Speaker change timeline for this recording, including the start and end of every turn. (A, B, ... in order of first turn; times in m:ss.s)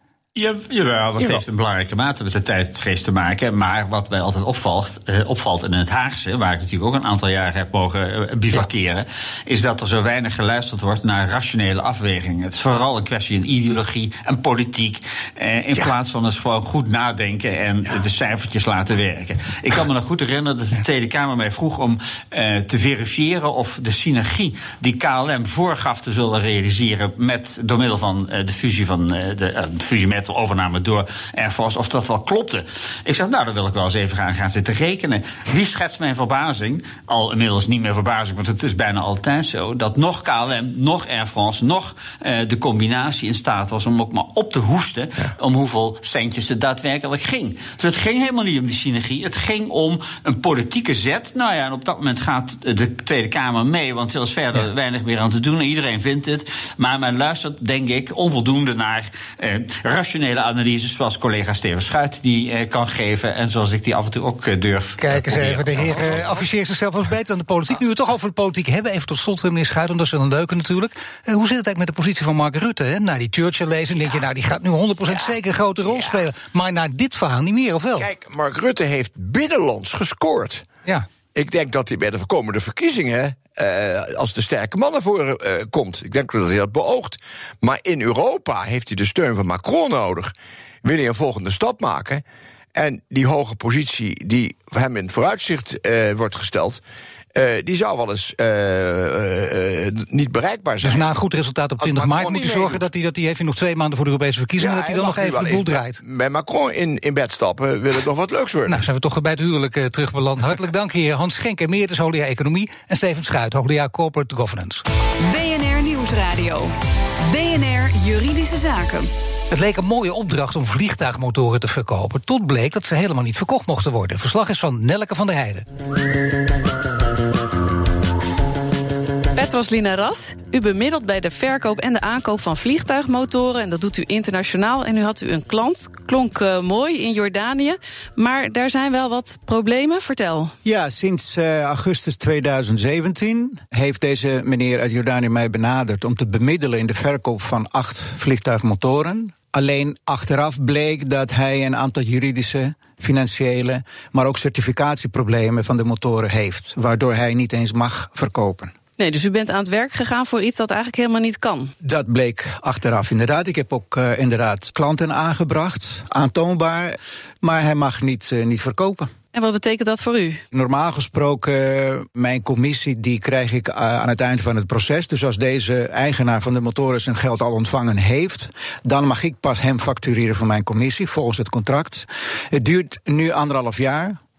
0:00.4-1:06.4 A
1:05.0-1:18.1 B
1:15.8-1:16.2 C
1:18.0-1:20.6 C
1:21.3-1:30.3 C
1:30.8-1:32.2 C
1:32.8-1:36.8 C
1:37.3-1:41.1 C
1:40.8-1:46.0 B
1:41.8-1:42.8 C
1:44.6-1:48.8 C
1:48.7-1:54.8 B
1:55.2-1:59.1 D
1:59.5-2:05.6 B
2:09.3-2:20.5 E
2:20.6-2:38.7 F
2:39.0-2:41.7 E
2:41.8-2:49.1 F
2:49.3-2:50.4 E
2:50.5-3:04.2 F